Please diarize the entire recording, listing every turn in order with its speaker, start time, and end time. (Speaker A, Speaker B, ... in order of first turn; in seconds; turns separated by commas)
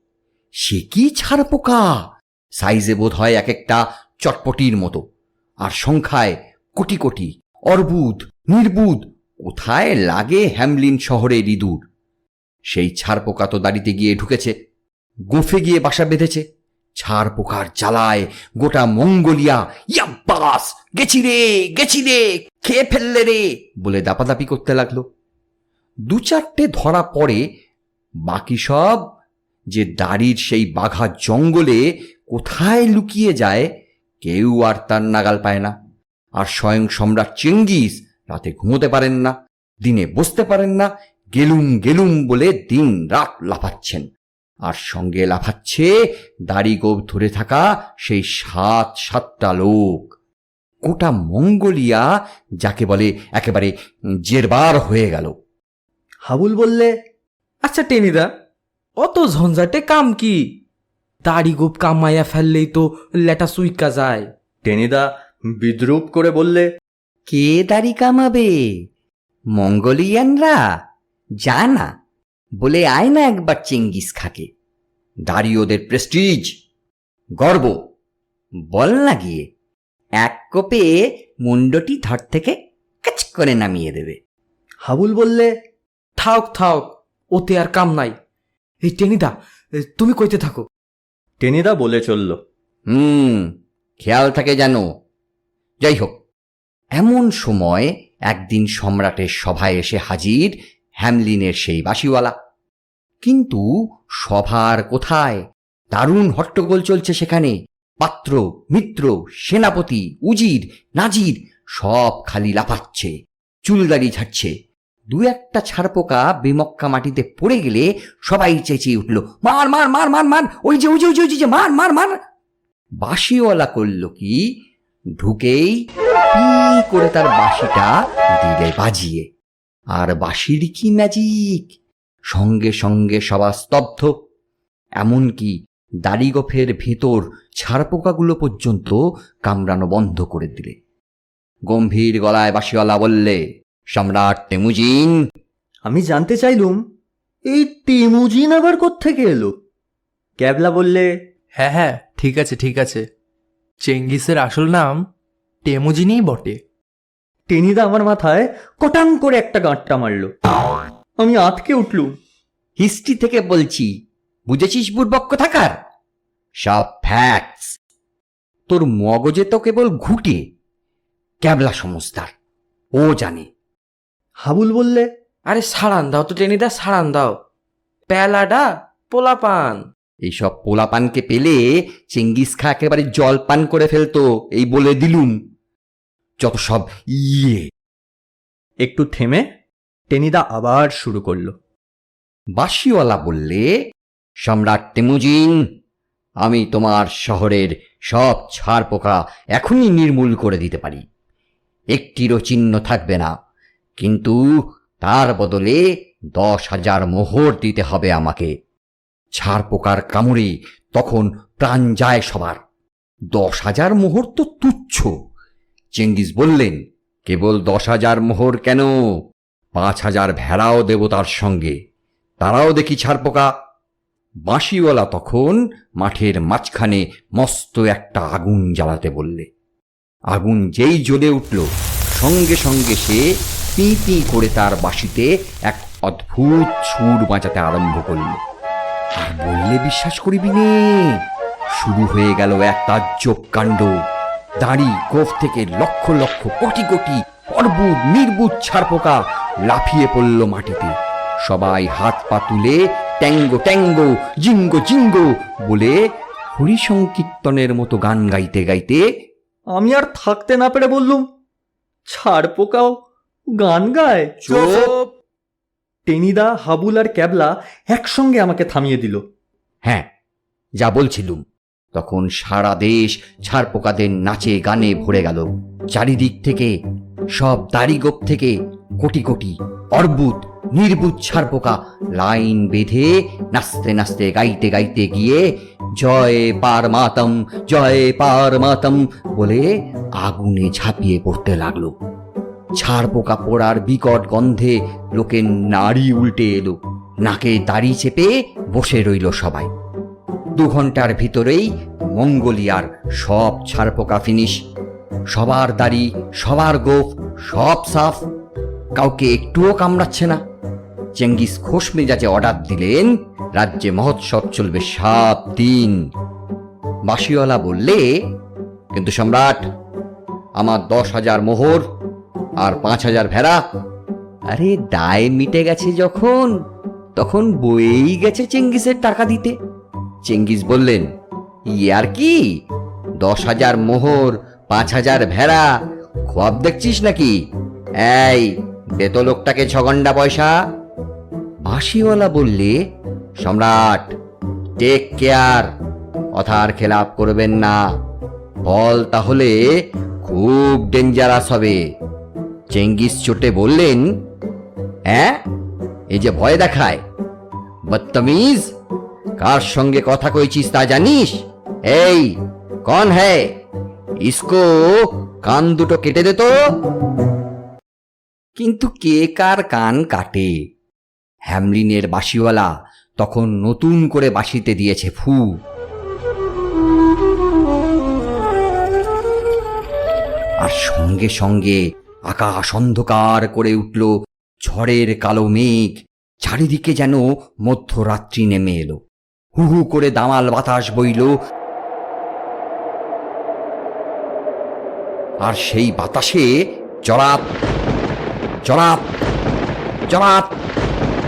Speaker A: 0.6-2.0, Speaker A: 2.6-5.0, Speaker A: 5.6-11.8, Speaker A: 12.7-14.5, Speaker A: 15.3-16.4, Speaker A: 17.0-25.1, Speaker A: 26.1-27.4, Speaker A: 28.3-29.0, Speaker A: 29.7-33.7, Speaker A: 34.2-35.7, Speaker A: 36.4-44.1, Speaker A: 44.7-45.9, Speaker A: 46.5-50.1, Speaker A: 50.9-52.0, Speaker A: 52.6-53.7, Speaker A: 54.3-55.3, Speaker B: 56.3-56.9, Speaker C: 57.6-58.3, Speaker C: 59.0-60.5, Speaker C: 61.2-64.3, Speaker B: 64.7-66.7, Speaker A: 67.3-68.5, Speaker A: 69.6-70.6, Speaker A: 71.4-71.9, Speaker A: 72.6-74.5, Speaker A: 75.3-76.5, Speaker A: 77.4-77.8, Speaker A: 78.7-79.5, Speaker A: 80.2-80.9, Speaker A: 81.4-84.2, Speaker B: 84.8-85.5, Speaker C: 86.2-88.2, Speaker C: 88.8-90.7, Speaker B: 91.4-92.4, Speaker A: 92.9-93.5, Speaker A: 94.0-94.8, Speaker A: 95.8-96.1, Speaker A: 97.0-102.3, Speaker A: 103.2-103.6, Speaker A: 104.2-105.4, Speaker A: 105.9-113.1, Speaker A: 113.7-114.5, Speaker A: 115.1-122.1, Speaker A: 123.0-124.4, Speaker A: 125.2-125.8, Speaker A: 126.3-129.3, Speaker A: 130.0-131.7, Speaker A: 132.3-134.1, Speaker A: 135.0-135.5, Speaker A: 136.1-140.8, Speaker A: 141.7-143.4, Speaker A: 143.9-145.2, Speaker B: 145.8-146.8, Speaker B: 147.5-149.5, Speaker B: 150.4-151.1, Speaker D: 151.6-153.1, Speaker D: 153.8-155.0, Speaker D: 155.7-156.6, Speaker B: 157.5-160.3, Speaker B: 161.2-162.1, Speaker A: 162.8-163.9, Speaker A: 164.5-165.8, Speaker A: 166.6-167.8, Speaker A: 168.7-170.4, Speaker A: 171.4-172.3, Speaker A: 173.0-173.5, Speaker B: 174.4-175.1, Speaker C: 175.5-177.4, Speaker C: 178.1-179.8, Speaker A: 180.3-181.6, Speaker A: 182.1-185.4, Speaker A: 186.4-187.7, Speaker B: 188.8-189.4, Speaker B: 190.1-191.5, Speaker A: 192.6-193.7, Speaker A: 194.4-195.6, Speaker A: 196.4-201.0, Speaker A: 201.9-203.3, Speaker A: 204.0-204.4, Speaker A: 205.0-205.8, Speaker A: 206.3-208.5, Speaker A: 209.4-212.6, Speaker A: 213.3-215.1, Speaker A: 216.0-218.9, Speaker A: 219.8-221.8, Speaker A: 222.4-223.5, Speaker A: 224.5-229.5, Speaker A: 230.3-233.2, Speaker A: 233.8-238.4, Speaker A: 239.2-241.2, Speaker A: 241.7-243.9, Speaker A: 244.6-250.9, Speaker A: 251.4-256.0, Speaker A: 256.5-259.0, Speaker B: 259.7-261.3, Speaker B: 262.1-262.9, Speaker B: 263.6-264.5, Speaker A: 264.4-264.9, Speaker B: 266.1-269.2, Speaker A: 270.8-271.4, Speaker A: 271.9-276.7, Speaker A: 277.4-291.9, Speaker A: 292.8-299.7, Speaker A: 300.6-304.6, Speaker A: 305.3-308.2, Speaker A: 309.0-310.4, Speaker A: 311.2-316.0, Speaker A: 317.1-318.0, Speaker A: 318.9-319.6, Speaker A: 320.6-321.9, Speaker A: 322.6-323.6, Speaker A: 324.5-326.5, Speaker A: 327.2-329.5, Speaker A: 330.3-331.1, Speaker A: 331.8-332.4, Speaker A: 333.2-335.7, Speaker A: 336.3-337.4, Speaker A: 338.0-340.5, Speaker A: 341.6-342.8, Speaker A: 343.4-344.1, Speaker A: 344.8-345.7, Speaker A: 346.4-347.8, Speaker A: 348.6-349.6, Speaker A: 350.2-351.8, Speaker A: 352.7-354.1, Speaker A: 355.1-355.4, Speaker A: 356.1-357.0, Speaker A: 357.9-358.7, Speaker A: 359.4-362.3, Speaker A: 362.9-363.5, Speaker A: 364.2-366.5, Speaker A: 368.6-370.5, Speaker A: 371.5-375.4, Speaker A: 380.6-384.1, Speaker A: 384.6-389.0, Speaker A: 389.6-391.3, Speaker A: 395.4-396.5, Speaker A: 397.1-397.5, Speaker A: 398.7-399.1, Speaker A: 400.1-400.5